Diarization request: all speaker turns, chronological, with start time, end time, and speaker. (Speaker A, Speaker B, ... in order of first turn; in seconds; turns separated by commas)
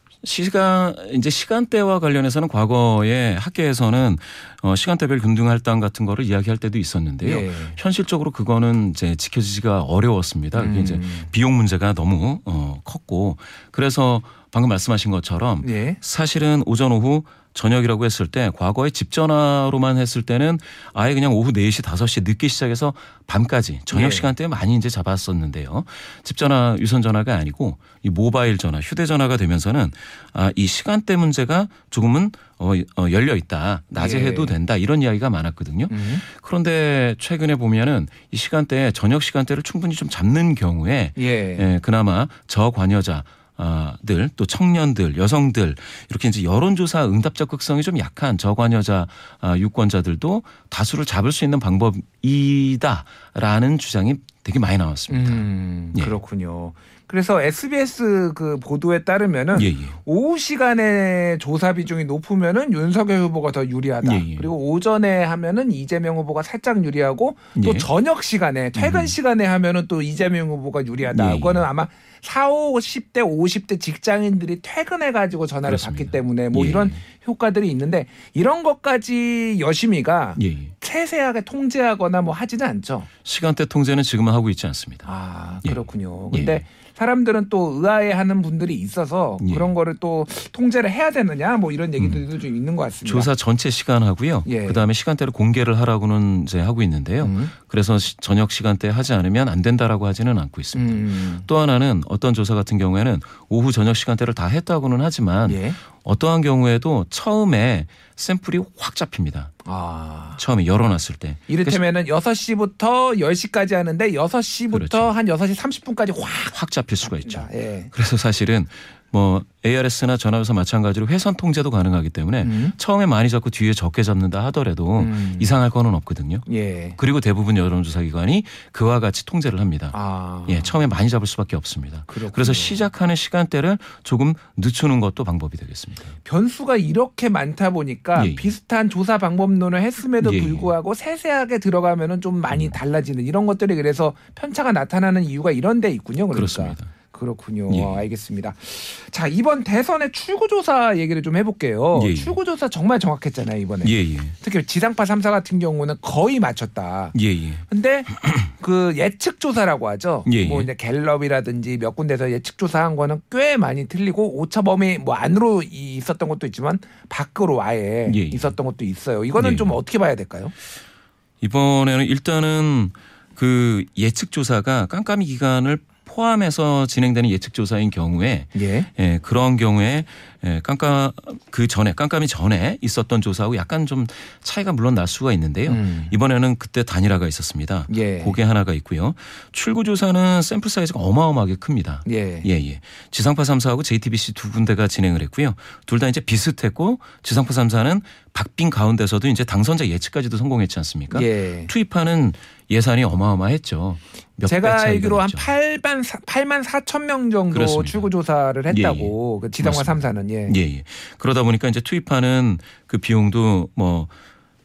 Speaker A: 0.2-56.1, Speaker B: 7.2-7.8, Speaker B: 10.5-11.3, Speaker B: 15.6-16.0, Speaker B: 23.9-24.3, Speaker B: 34.0-34.5, Speaker B: 35.9-36.2, Speaker B: 41.2-41.7, Speaker B: 55.1-83.1, Speaker A: 59.5-60.0, Speaker A: 64.0-64.5, Speaker A: 67.5-67.9, Speaker A: 68.8-69.1, Speaker A: 71.1-71.6, Speaker A: 75.6-77.0, Speaker A: 80.4-80.7, Speaker A: 83.2-85.1, Speaker B: 85.0-93.3, Speaker A: 86.3-86.6, Speaker A: 89.4-89.7, Speaker A: 93.0-109.5, Speaker B: 94.5-94.8, Speaker B: 97.2-97.5, Speaker B: 100.7-101.5, Speaker B: 105.5-105.8, Speaker B: 109.6-110.4, Speaker A: 110.4-111.8, Speaker B: 111.5-117.9, Speaker A: 114.7-115.1, Speaker A: 116.5-126.4, Speaker B: 122.4-122.8, Speaker B: 125.0-125.5, Speaker B: 126.5-127.0, Speaker A: 127.0-129.9, Speaker B: 129.9-130.7, Speaker A: 130.5-136.2, Speaker B: 132.1-132.8, Speaker B: 136.2-157.1, Speaker A: 138.1-138.5, Speaker A: 140.2-140.7, Speaker A: 142.5-142.8, Speaker A: 146.3-146.9, Speaker A: 147.7-148.0, Speaker A: 151.9-152.3, Speaker A: 153.8-154.3, Speaker A: 157.1-157.6, Speaker B: 157.7-170.5, Speaker A: 160.2-160.7, Speaker A: 168.1-168.5, Speaker A: 169.4-169.8, Speaker A: 171.4-205.5, Speaker B: 178.5-178.9, Speaker B: 185.7-186.1, Speaker B: 187.9-188.3, Speaker B: 192.0-192.5, Speaker B: 201.1-201.7, Speaker B: 204.4-210.6, Speaker A: 207.5-208.1, Speaker A: 208.7-214.1